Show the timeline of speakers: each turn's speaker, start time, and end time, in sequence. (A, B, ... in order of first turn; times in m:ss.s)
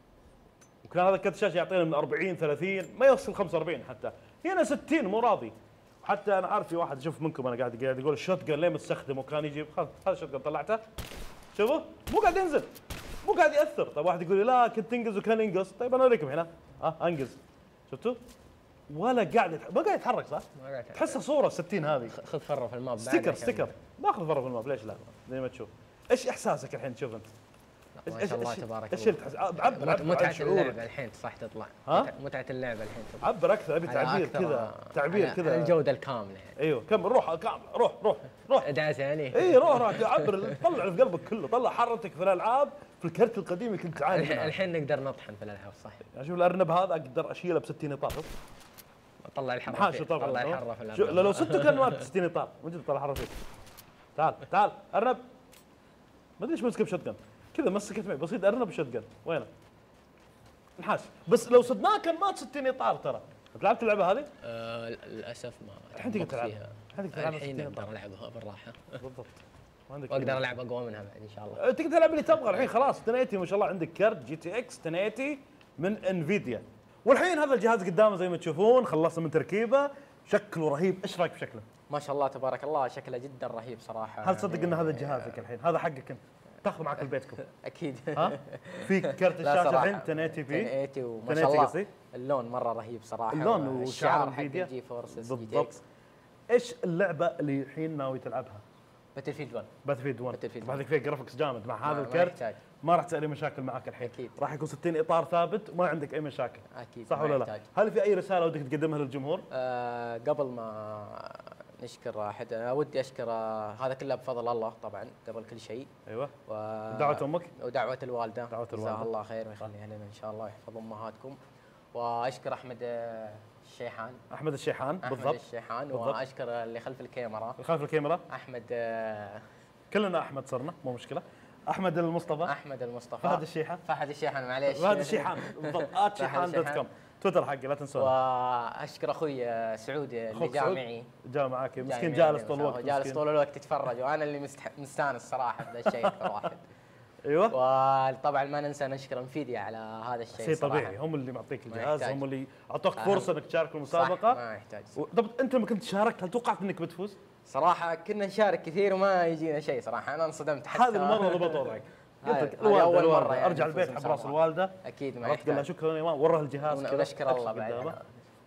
0:00.8-0:10.8 A
0:11.5-0:12.7 A
0:13.2-0:18.2 A
0:18.9-0:22.2 A
0:20.5-0:21.2 B
0:22.0-0:23.8 B
0:23.0-0:27.3 A
0:28.0-0:33.3 B
0:28.1-0:30.8 A
0:31.9-0:32.1 A
0:33.2-0:35.8 A
0:33.8-0:36.6 B
0:36.6-0:38.7 A
0:38.6-0:40.8 B
0:39.3-0:44.6 A
0:43.9-0:46.0 B
0:46.1-0:48.3 A
0:49.2-0:52.1 B
0:49.7-0:53.3 A
0:54.2-0:55.2 A
0:56.4-0:59.5 A
1:00.8-1:04.3 A
1:04.4-1:09.0 B
1:05.9-1:07.9 A
1:09.0-1:10.5 A
1:10.1-1:11.6 B
1:11.6-1:21.6 A
1:21.9-1:25.4 B
1:24.2-1:27.4 A
1:27.4-1:35.8 B
1:28.1-1:30.7 A
1:31.3-1:31.9 A
1:33.3-1:35.8 A
1:36.5-1:38.6 A
1:39.1-1:39.8 B
1:39.8-1:49.5 A
1:40.3-1:40.9 B
1:41.8-1:42.6 B
1:44.0-1:44.4 B
1:46.7-1:47.7 B
1:49.5-1:55.9 B
1:56.1-1:56.3 A
1:56.5-2:01.4 B
1:56.9-1:57.5 A
1:58.5-1:59.1 A
2:01.9-2:04.2 B
2:04.3-2:05.4 A
2:05.0-2:07.6 B
2:05.9-2:06.2 A
2:07.6-2:08.2 A
2:08.3-2:09.4 B
2:09.9-2:12.5 A
2:12.4-2:16.8 B
2:13.2-2:13.8 A
2:14.7-2:18.1 A
2:18.0-2:21.1 B
2:20.3-2:23.2 A
2:21.8-2:26.7 B
2:25.8-2:26.3 A
2:27.2-2:27.6 A
2:27.5-2:31.0 B
2:30.3-2:34.4 A
2:31.7-2:32.2 B
2:33.0-2:33.3 B
2:33.9-2:35.0 B
2:34.9-2:37.2 A
2:37.5-2:45.7 B
2:40.7-2:48.0 A
2:46.6-2:48.2 B